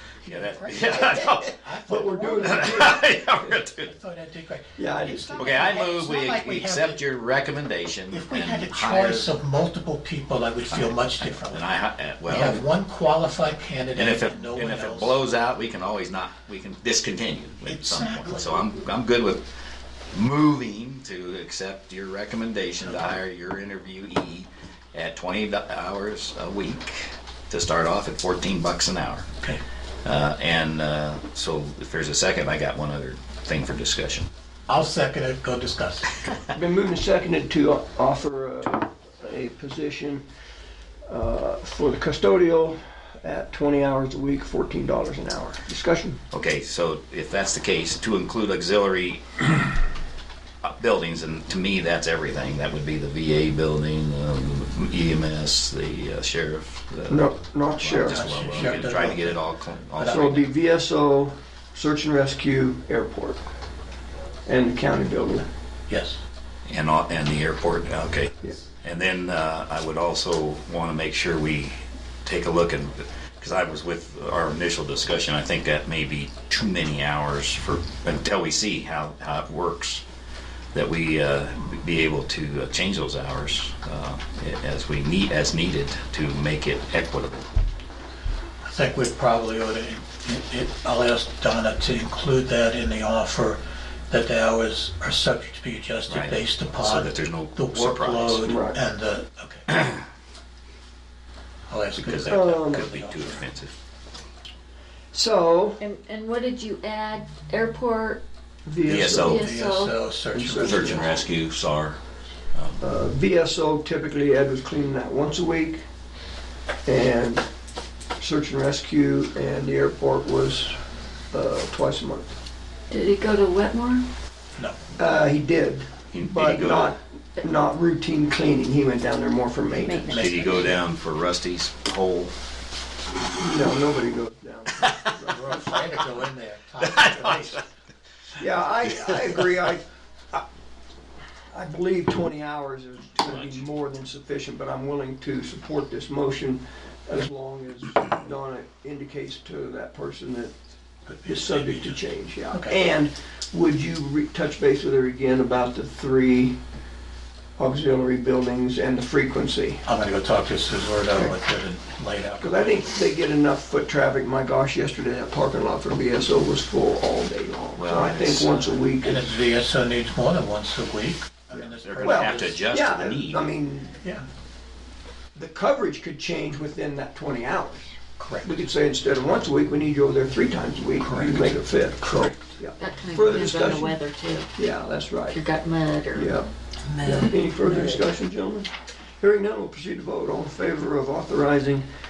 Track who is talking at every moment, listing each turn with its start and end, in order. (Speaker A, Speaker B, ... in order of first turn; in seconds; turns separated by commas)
Speaker A: 0.2-2.9, Speaker B: 0.3-1.6, Speaker C: 0.9-1.3, Speaker C: 1.9-3.1, Speaker B: 2.4-3.9, Speaker A: 3.8-7.0, Speaker C: 4.8-5.8, Speaker B: 5.4-9.3, Speaker A: 8.1-11.7, Speaker B: 10.7-12.6, Speaker A: 12.2-15.2, Speaker B: 13.9-19.4, Speaker A: 17.6-18.6, Speaker B: 20.1-29.2, Speaker B: 30.0-34.3, Speaker A: 34.7-36.2, Speaker C: 36.5-40.2, Speaker C: 41.1-46.2, Speaker B: 46.3-49.2, Speaker B: 50.6-60.4, Speaker C: 57.1-58.8, Speaker A: 58.1-59.4, Speaker A: 60.0-60.5, Speaker C: 60.0-63.4, Speaker C: 64.5-65.5, Speaker A: 65.9-66.2, Speaker B: 66.7-80.0, Speaker B: 80.7-87.5, Speaker A: 88.6-99.9, Speaker B: 96.1-98.5, Speaker C: 98.4-98.8, Speaker A: 101.7-103.5, Speaker B: 102.0-103.7, Speaker C: 102.3-102.9, Speaker C: 105.1-105.8, Speaker D: 105.8-108.2, Speaker C: 108.7-109.5, Speaker B: 108.9-109.5, Speaker A: 109.1-111.1, Speaker D: 109.2-109.9, Speaker C: 110.3-111.1, Speaker B: 110.6-112.0, Speaker D: 110.7-111.1, Speaker B: 112.5-112.8, Speaker C: 112.8-115.8, Speaker C: 116.8-117.5, Speaker C: 118.2-120.8, Speaker C: 121.3-122.3, Speaker D: 122.9-124.0, Speaker C: 125.0-130.1, Speaker B: 126.1-127.0, Speaker D: 129.8-130.7, Speaker A: 130.1-130.8, Speaker B: 130.1-132.3, Speaker C: 133.4-135.6, Speaker A: 135.2-137.7, Speaker B: 136.8-137.6, Speaker C: 138.4-140.4, Speaker A: 138.8-139.5, Speaker C: 141.5-150.5, Speaker B: 143.2-143.6, Speaker A: 151.1-152.0, Speaker C: 151.2-156.6, Speaker C: 157.6-159.8, Speaker A: 159.8-162.9, Speaker C: 162.4-169.3, Speaker B: 167.8-168.7, Speaker A: 169.0-172.6, Speaker B: 171.5-173.5, Speaker C: 172.0-174.0, Speaker C: 175.3-184.0, Speaker A: 178.2-178.6, Speaker A: 181.0-182.3, Speaker D: 182.8-184.5, Speaker C: 184.6-185.4, Speaker D: 185.3-186.3, Speaker C: 186.1-186.5, Speaker D: 186.9-187.3, Speaker C: 187.0-191.8